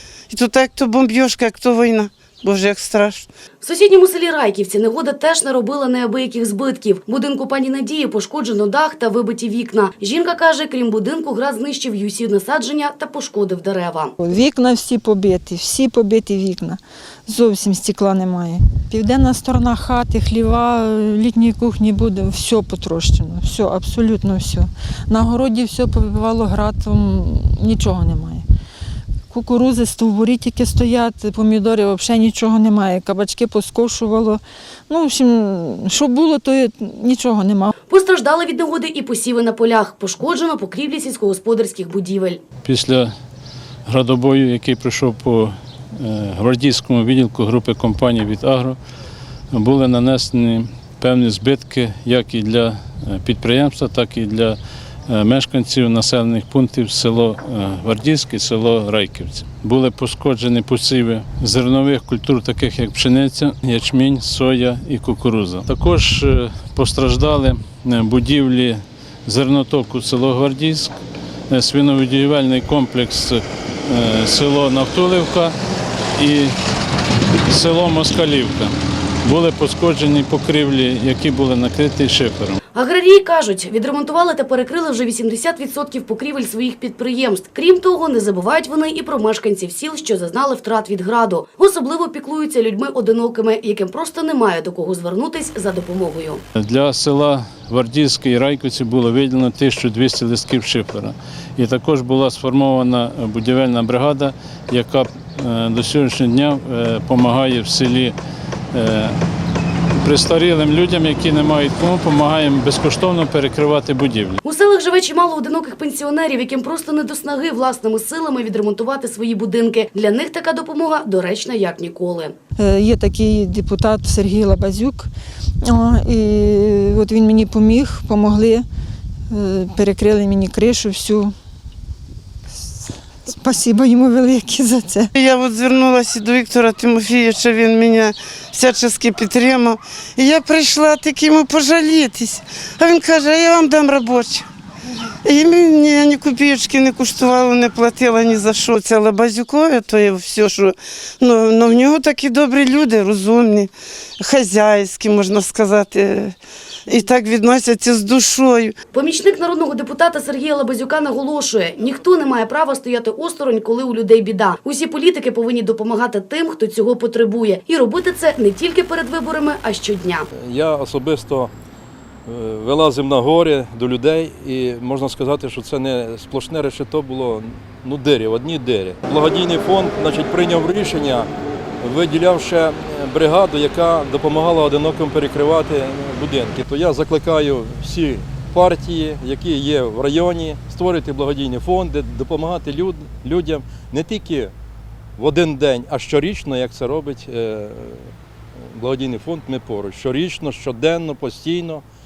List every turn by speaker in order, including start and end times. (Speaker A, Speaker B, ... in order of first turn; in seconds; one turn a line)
Speaker A: 0.3-3.3
Speaker B: 3.6-14.2
Speaker C: 14.2-28.4
Speaker C: 29.3-37.7
Speaker B: 37.9-42.4
Speaker D: 42.6-43.1
Speaker D: 43.9-48.8
Speaker D: 49.5-54.6
Speaker D: 55.1-70.9
Speaker D: 71.5-75.5
Speaker D: 76.2-76.5
Speaker D: 77.5-78.7
Speaker D: 79.2-82.6
Speaker B: 82.7-96.4
Speaker D: 96.6-108.1
Speaker D: 108.7-109.2
Speaker D: 110.0-114.4
Speaker B: 114.4-122.3
Speaker C: 122.6-125.1
Speaker C: 125.6-128.7
Speaker C: 129.3-131.3
Speaker C: 132.5-135.1
Speaker A: 135.2-144.5
Speaker A: 145.2-158.8
Speaker B: 158.9-170.3
Speaker E: 170.4-171.5
Speaker E: 172.2-181.3
Speaker E: 181.8-194.5
Speaker E: 195.2-201.8